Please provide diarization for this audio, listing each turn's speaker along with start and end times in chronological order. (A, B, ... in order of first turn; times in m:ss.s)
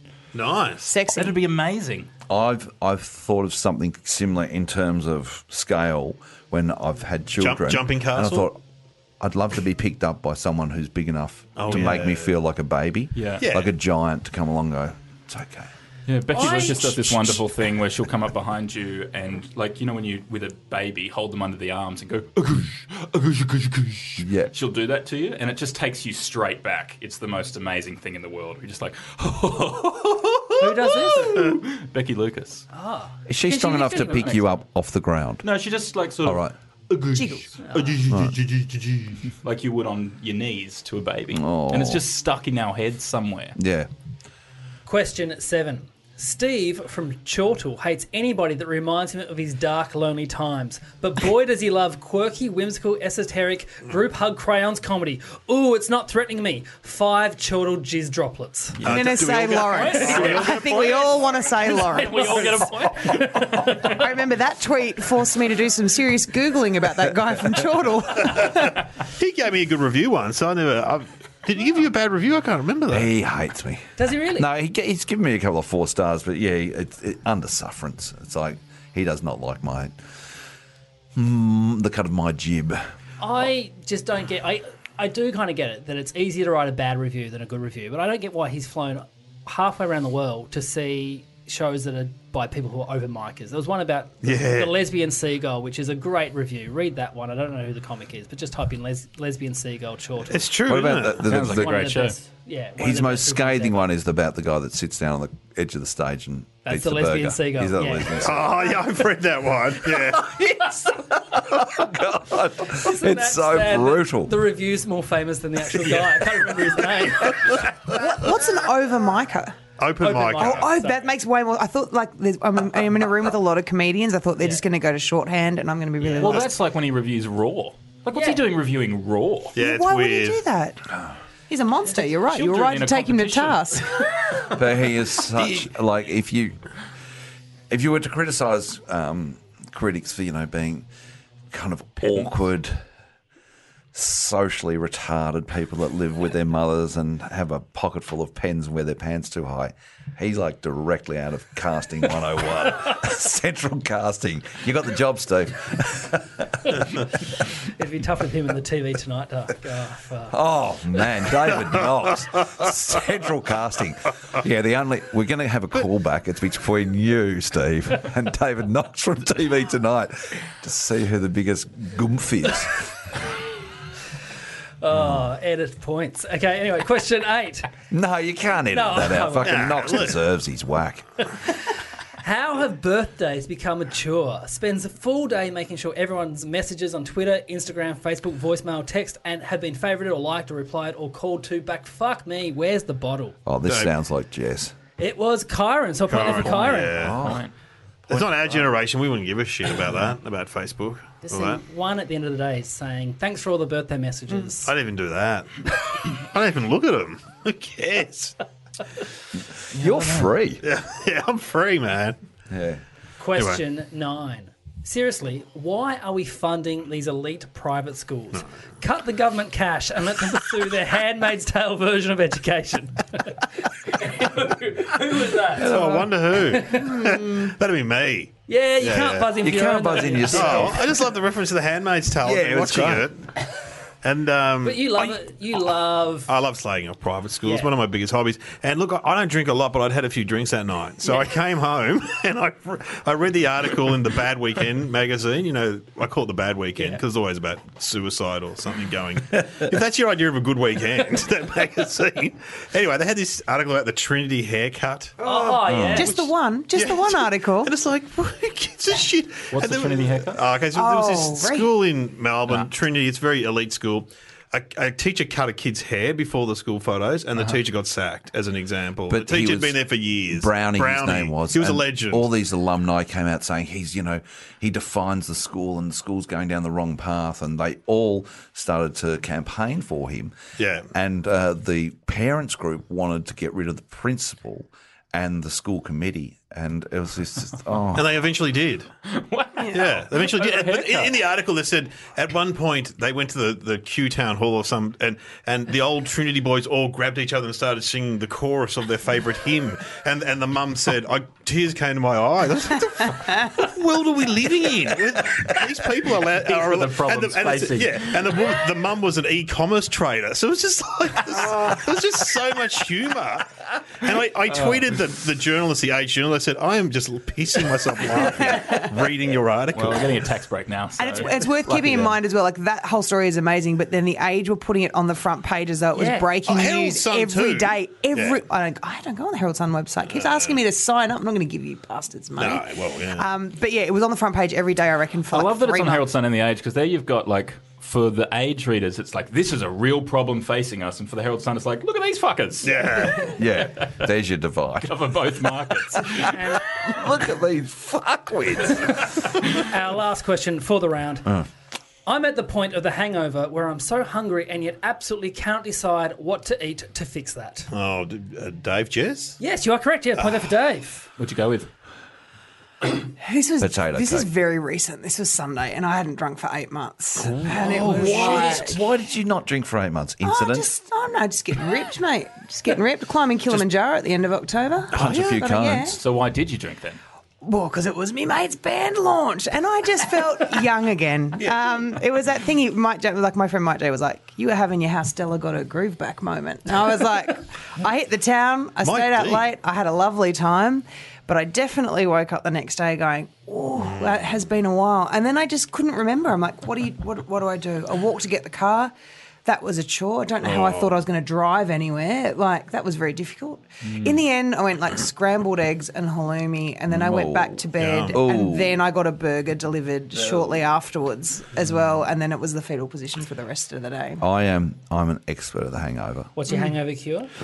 0:00.3-0:00.9 A
0:00.9-0:01.4 B
0:01.1-0:02.1 C
0:02.3-0:08.6 D
0:07.4-0:08.5 A
0:09.2-0:15.7 D
0:11.6-0:12.3 A
0:11.7-0:12.0 C
0:13.2-0:13.4 C
0:13.4-0:13.7 A
0:16.1-0:32.7 C
0:16.4-0:16.8 E
0:24.2-0:24.5 D
0:30.6-0:31.5 E
0:32.7-0:34.4 E
0:33.3-0:35.5 D
0:35.4-0:43.6 C
0:36.2-0:36.5 D
0:37.1-0:37.5 B
0:37.6-0:37.9 E
0:38.1-0:38.4 D
0:41.3-0:42.0 D
0:43.6-0:43.9 D
0:44.9-0:58.8 E
0:58.8-0:59.2 C
0:58.8-1:00.8 A
0:58.9-1:08.8 B
0:59.7-1:01.0 E
1:00.2-1:01.2 C
1:01.6-1:04.0 E
1:02.0-1:02.8 C
1:03.3-1:03.7 C
1:09.1-1:13.1 A
1:12.9-1:20.0 D
1:14.0-1:14.5 E
1:21.2-1:22.9 D
1:23.2-1:40.5 E
1:34.2-1:34.8 A
1:40.3-1:41.3 A
1:40.7-1:41.9 D
1:41.2-1:42.2 C
1:41.3-1:43.9 E
1:42.8-1:48.7 D
1:46.6-1:48.3 E
1:48.2-1:50.4 A
1:50.0-1:54.4 D
1:52.7-1:57.7 E
1:57.9-1:59.7 B
1:59.8-2:00.7 A
2:00.0-2:01.1 E
2:00.4-2:06.5 B
2:06.2-2:09.6 C
2:08.1-2:08.4 E
2:09.6-2:10.4 A
2:09.6-2:10.9 B
2:11.5-2:14.1 B
2:12.3-2:14.0 C
2:14.5-2:16.6 D
2:17.7-2:20.9 D
2:21.5-2:22.8 D
2:23.9-2:37.0 D
2:37.8-2:40.4 E
2:40.3-2:52.9 D
2:54.8-2:57.7 E
2:54.9-2:55.3 D
2:57.9-3:01.1 D
2:58.7-2:59.8 E
2:59.4-3:00.2 A
3:02.2-3:13.4 E
3:13.5-3:14.8 D
3:13.7-3:13.9 A
3:15.0-3:17.1 E
3:16.1-3:17.2 A
3:16.9-3:17.4 D
3:17.2-3:17.5 C
3:18.1-3:21.6 A
3:21.2-3:24.7 E
3:24.6-3:25.5 A
3:26.0-3:28.4 A
3:29.7-3:30.6 D
3:30.6-3:32.2 A
3:32.5-3:32.8 D
3:33.2-3:47.1 E
3:33.4-3:33.6 A
3:45.6-3:49.4 A
3:45.6-3:46.1 D
3:46.9-3:47.5 B
3:48.5-3:50.8 E
3:49.4-3:50.9 D
3:50.3-3:53.3 A
3:52.2-3:53.1 D
3:54.0-3:55.1 A
3:54.6-3:56.3 E
3:56.3-4:15.6 A
3:57.4-3:57.7 E
4:15.2-4:16.1 E
4:15.7-4:16.1 D
4:16.0-4:17.7 B
4:16.7-4:32.3 A
4:19.5-4:20.4 C
4:20.7-4:21.7 B
4:29.1-4:29.8 D
4:30.3-4:40.4 D
4:40.6-4:40.9 A
4:40.9-4:48.2 D
4:47.9-4:48.9 A
4:49.1-4:51.2 C
4:49.6-4:49.9 B
4:49.7-5:20.2 A
5:06.3-5:08.4 C
5:14.5-5:14.8 C
5:18.4-5:18.9 B
5:19.7-5:22.2 C
5:21.0-5:36.1 B
5:26.0-5:26.3 E
5:26.4-5:28.4 A
5:30.1-5:30.6 A
5:32.4-5:33.3 A
5:35.3-5:44.0 C
5:42.6-5:43.4 A
5:43.3-5:45.0 D
5:44.8-5:46.3 C
5:46.0-5:49.0 D
5:46.3-5:46.6 E
5:49.6-5:51.3 E
5:52.1-5:57.7 E
5:57.7-5:59.4 A
5:59.4-6:01.1 E
6:01.2-6:01.7 C
6:03.2-6:08.8 B
6:03.6-6:04.3 D
6:07.3-6:10.7 D
6:10.2-6:16.0 B
6:14.9-6:16.0 D
6:15.0-6:15.2 A
6:16.0-6:17.0 C
6:17.4-6:38.9 B
6:28.8-6:29.4 A
6:33.8-6:34.2 A
6:39.4-6:54.2 B
6:40.4-6:41.0 A
6:46.9-6:48.8 D
6:47.8-6:48.2 A
6:54.2-6:56.3 D
6:56.4-6:57.3 E